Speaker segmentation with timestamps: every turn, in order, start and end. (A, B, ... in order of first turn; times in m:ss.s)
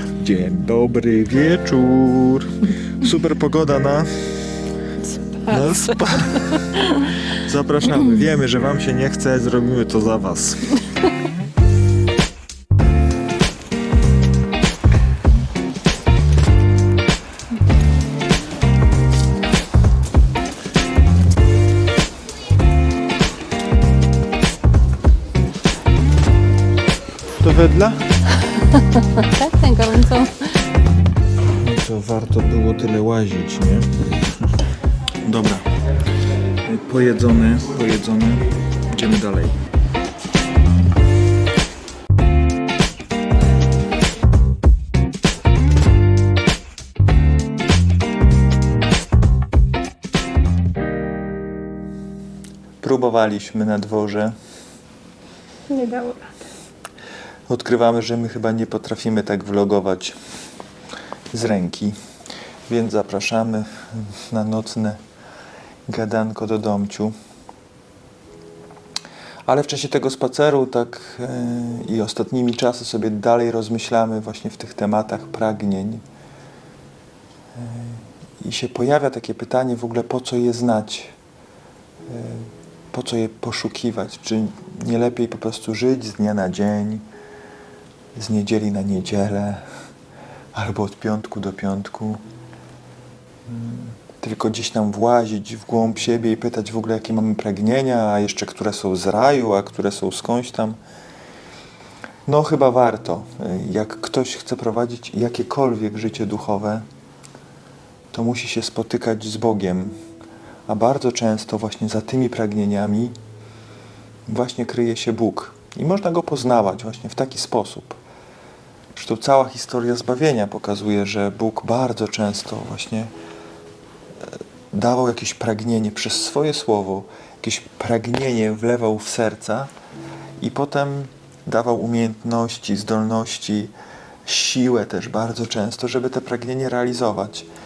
0:00.2-0:02.5 A
0:03.0-0:04.1 A
0:05.0-0:06.0 B
0:05.5-0:06.6 A
0:06.5-0:07.1 B
0:07.4-0:10.8 A
0:27.4-0:28.0 A
0:28.5-0:30.6 B
0:31.6-0:34.0 A
0:35.2-0:35.7 A
0:36.6-0:39.6 A
0:52.8-0:54.3 A
0:55.7-0:56.3 B
0:57.5-1:00.2 A
1:01.3-1:01.9 A
1:02.7-1:05.0 A
1:05.9-1:07.1 A
1:09.4-1:16.0 A
1:17.5-1:21.2 A
1:22.1-1:27.0 A
1:28.1-1:29.6 A
1:30.5-1:32.2 A
1:33.5-1:40.8 A
1:42.2-1:46.8 A
1:48.1-1:49.9 A
1:50.7-1:53.1 A
1:54.3-1:58.0 A
1:58.9-2:03.1 A
2:04.3-2:09.7 A
2:10.4-2:13.7 A
2:14.2-2:17.5 A